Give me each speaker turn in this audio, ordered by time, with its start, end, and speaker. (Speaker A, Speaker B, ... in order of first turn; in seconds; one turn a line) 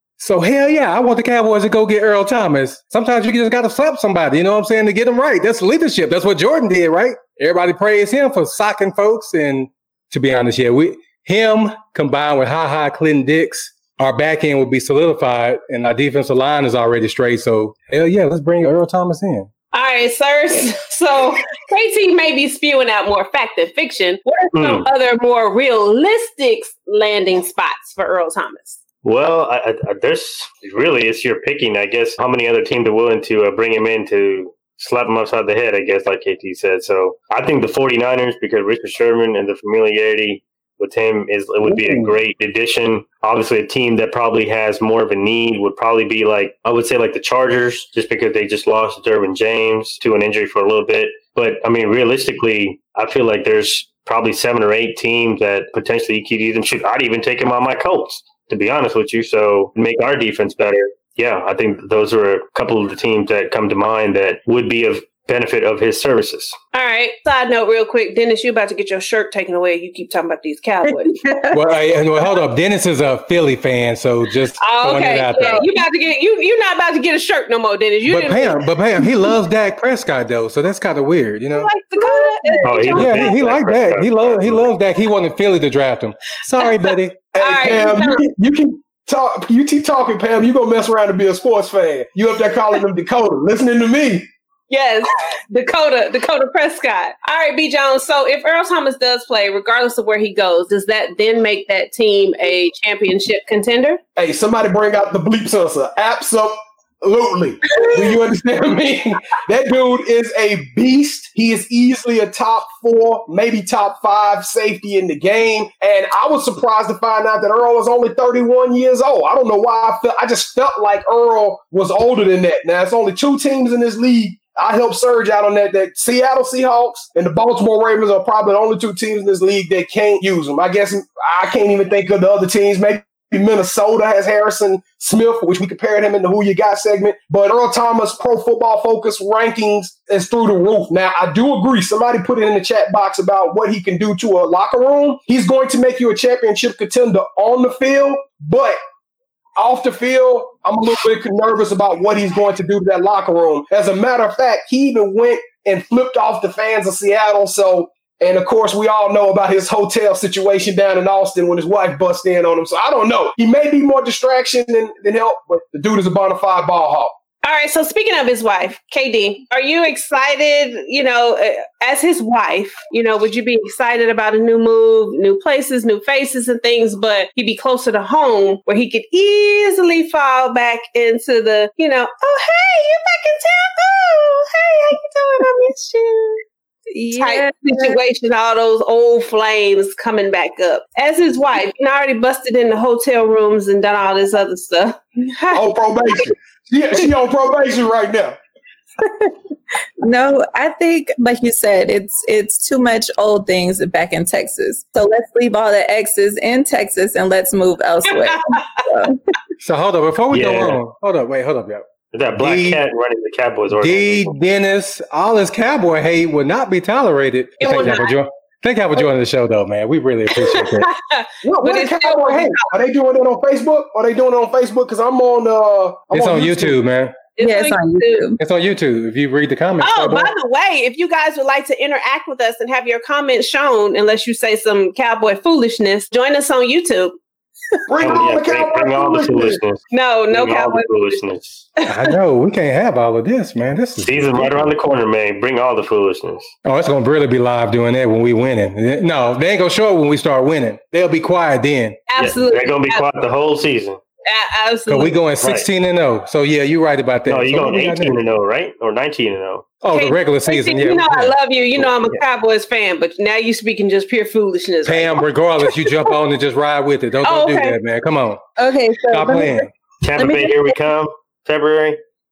Speaker A: 0.2-19.5
Speaker B: 19.7-28.8
Speaker C: 24.6-24.9
Speaker C: 29.0-66.6
Speaker D: 41.6-42.1
Speaker B: 66.7-71.1
Speaker E: 70.8-71.6
Speaker A: 71.5-75.7
Speaker B: 74.6-78.7
Speaker A: 78.1-81.7
Speaker B: 81.5-83.4
Speaker E: 82.0-82.9
Speaker C: 82.6-84.6
Speaker A: 82.9-87.2
Speaker D: 87.3-94.3
Speaker B: 87.4-88.2
Speaker B: 94.7-104.0
Speaker D: 104.2-148.8
Speaker D: 149.6-167.1
Speaker B: 167.4-186.4
Speaker E: 186.9-188.0
Speaker B: 187.2-195.7
Speaker D: 195.5-198.4
Speaker E: 199.0-199.3
Speaker E: 200.0-209.2
Speaker B: 208.2-208.7
Speaker A: 209.6-211.9
Speaker C: 210.3-210.8
Speaker C: 212.1-214.3
Speaker A: 212.4-212.8
Speaker A: 213.7-220.9
Speaker B: 217.6-218.2
Speaker B: 220.4-222.7
Speaker D: 221.4-226.8
Speaker A: 226.1-227.2
Speaker B: 227.4-228.3
Speaker E: 227.4-228.4
Speaker A: 228.4-230.3
Speaker B: 229.8-237.2
Speaker D: 237.9-239.6
Speaker C: 238.0-241.7
Speaker B: 239.9-241.2
Speaker B: 241.8-242.1
Speaker A: 241.9-244.7
Speaker C: 244.0-246.5
Speaker A: 246.7-252.0
Speaker B: 252.1-253.1
Speaker C: 252.2-254.0
Speaker B: 254.3-255.2
Speaker A: 254.9-258.2
Speaker C: 255.4-255.7
Speaker C: 257.3-259.8
Speaker A: 259.8-261.4
Speaker B: 259.9-265.3
Speaker A: 264.9-268.4
Speaker B: 267.2-267.8
Speaker E: 268.6-270.7
Speaker A: 269.1-269.7
Speaker C: 270.0-272.0